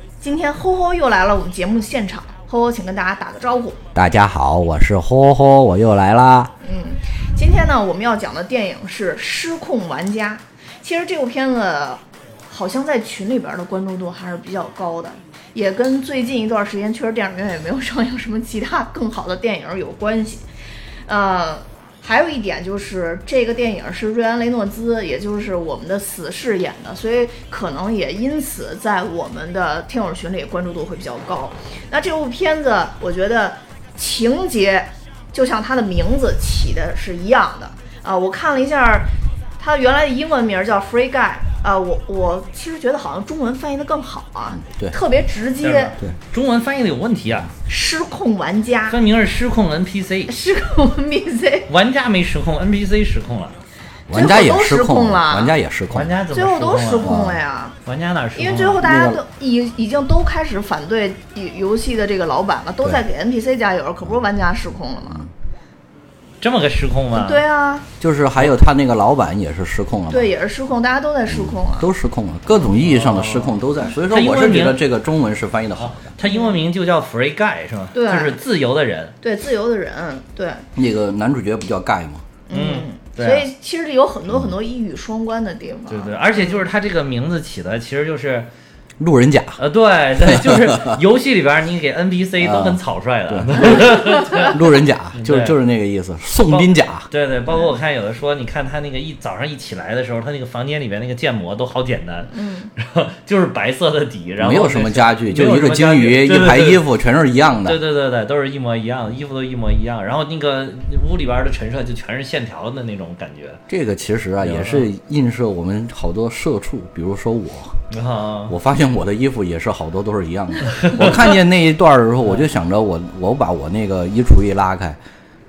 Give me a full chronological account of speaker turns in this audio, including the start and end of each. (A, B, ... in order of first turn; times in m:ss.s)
0:00.2-0:03.8 A
0:04.0-0:06.5 B
0:06.6-0:20.5 A
0:21.1-0:45.9 A
0:44.6-0:45.0 B
0:45.6-0:47.5 C
0:47.7-0:49.0 A
0:48.9-0:50.3 C
0:50.3-0:51.7 A
0:51.7-0:53.6 C
0:54.1-0:56.1 B
0:54.1-0:55.5 A
0:55.9-0:57.2 C
0:56.3-0:57.8 A
0:57.0-0:57.4 B
0:57.9-0:58.8 C
0:58.4-1:05.2 A
0:58.8-0:59.2 B
1:06.4-1:07.4 C
1:07.1-1:07.9 A
1:08.0-1:10.3 B
1:10.1-1:11.9 A
1:11.3-1:16.1 B
1:12.6-1:14.8 C
1:15.8-1:19.1 C
1:16.2-1:16.6 A
1:17.9-1:18.4 A
1:19.2-1:20.6 A
1:20.8-1:22.2 B
1:22.5-1:26.6 A
1:22.5-1:23.5 C
1:25.9-1:28.5 C
1:29.0-1:29.6 B
1:29.6-1:34.6 C
1:30.2-1:31.0 B
1:32.4-1:37.1 B
1:33.7-1:34.5 A
1:35.1-1:35.6 C
1:36.5-1:46.8 C
1:42.3-1:42.7 A
1:44.4-1:47.8 B
1:47.6-1:53.6 C
1:53.7-1:57.8 B
1:54.4-1:54.9 C
1:57.9-1:58.6 C
1:58.5-2:05.0 B
2:00.7-2:01.2 C